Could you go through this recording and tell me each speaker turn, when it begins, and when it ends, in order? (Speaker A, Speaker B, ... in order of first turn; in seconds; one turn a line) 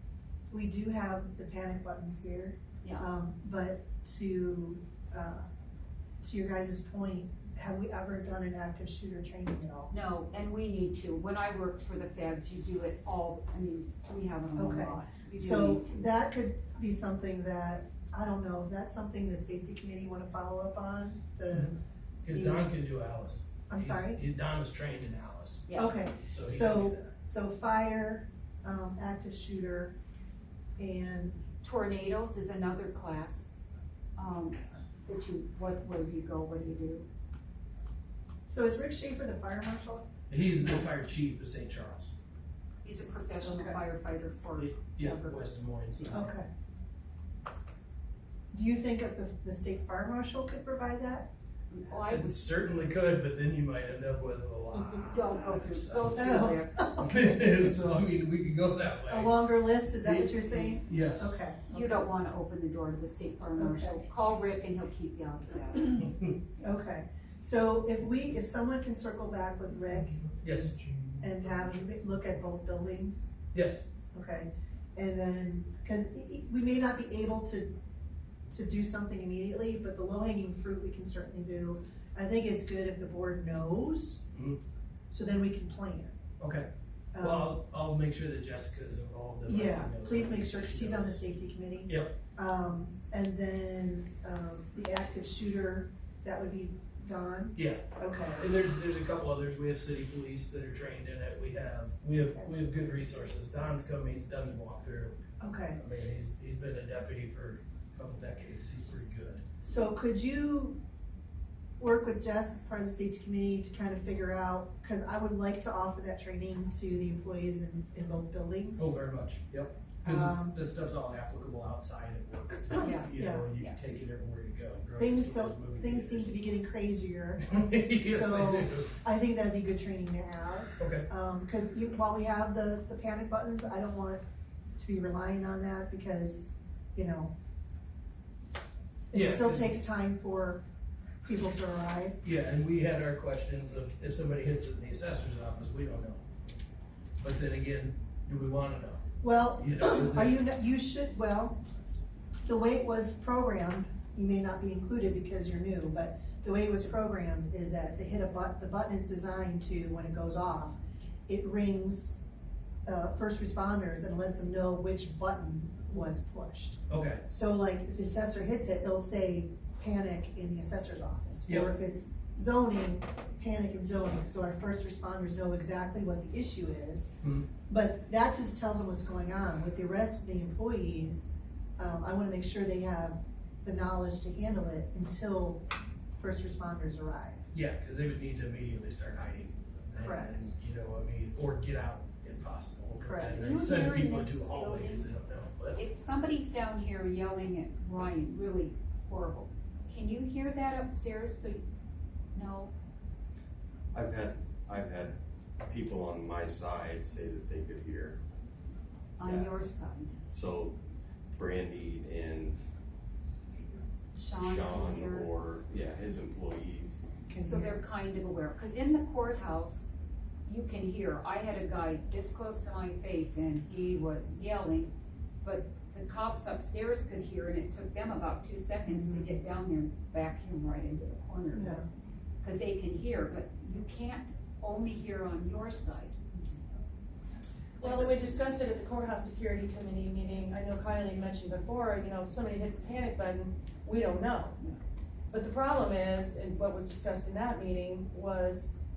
Speaker A: 0.5-5.5
Speaker B: 2.8-3.1
Speaker A: 6.2-9.9
Speaker B: 9.9-16.1
Speaker A: 14.6-22.7
Speaker C: 22.2-25.6
Speaker A: 23.7-24.2
Speaker B: 25.7-25.9
Speaker A: 25.7-29.9
Speaker C: 26.2-27.1
Speaker A: 30.8-31.4
Speaker B: 31.6-33.5
Speaker B: 34.1-37.1
Speaker A: 38.5-40.1
Speaker C: 40.3-42.1
Speaker B: 42.8-45.5
Speaker A: 43.4-43.8
Speaker C: 44.5-46.3
Speaker A: 46.1-46.5
Speaker A: 48.5-51.3
Speaker B: 51.7-52.4
Speaker C: 52.1-61.4
Speaker B: 55.1-56.7
Speaker A: 56.1-57.7
Speaker A: 59.1-62.1
Speaker B: 61.7-66.1
Speaker A: 63.5-64.0
Speaker C: 66.0-66.3
Speaker A: 66.6-70.4
Speaker C: 70.4-70.8
Speaker A: 71.2-73.3
Speaker C: 73.5-73.8
Speaker A: 74.1-77.7
Speaker A: 78.5-84.2
Speaker C: 84.3-84.6
Speaker A: 85.1-86.1
Speaker C: 86.4-86.7
Speaker A: 87.1-87.6
Speaker C: 87.2-91.2
Speaker A: 89.5-98.5
Speaker C: 91.9-92.1
Speaker C: 97.5-105.2
Speaker A: 102.2-102.5
Speaker A: 105.4-105.8
Speaker C: 105.7-109.4
Speaker A: 109.6-110.8
Speaker A: 111.8-118.9
Speaker C: 118.8-126.3
Speaker A: 120.0-120.5
Speaker A: 122.8-123.5
Speaker B: 122.8-123.8
Speaker A: 125.0-134.2
Speaker C: 127.4-128.9
Speaker C: 130.8-131.1
Speaker A: 134.8-137.3
Speaker A: 139.1-140.6
Speaker C: 139.1-139.8
Speaker A: 141.2-142.2
Speaker C: 142.2-146.2
Speaker C: 147.2-149.0
Speaker A: 149.2-151.6
Speaker C: 149.6-150.3
Speaker A: 152.4-160.8
Speaker A: 161.3-162.2
Speaker A: 162.8-177.1
Speaker C: 166.9-167.2
Speaker C: 171.5-171.7
Speaker C: 177.2-177.5
Speaker A: 177.6-185.6
Speaker A: 186.2-187.4
Speaker C: 187.5-195.8
Speaker A: 190.0-190.5
Speaker A: 193.0-193.5
Speaker B: 193.3-195.1
Speaker B: 195.7-201.6
Speaker B: 202.3-202.7
Speaker D: 203.9-208.2
Speaker B: 209.2-210.2
Speaker D: 209.2-209.5
Speaker D: 210.3-210.8
Speaker D: 211.3-212.6
Speaker B: 214.1-215.3
Speaker D: 214.3-217.0
Speaker A: 217.3-217.8
Speaker B: 217.4-219.9
Speaker B: 220.4-231.8
Speaker A: 228.9-229.3
Speaker A: 231.5-231.8
Speaker B: 232.4-236.2
Speaker E: 237.8-244.6
Speaker A: 237.8-238.1
Speaker E: 245.3-248.7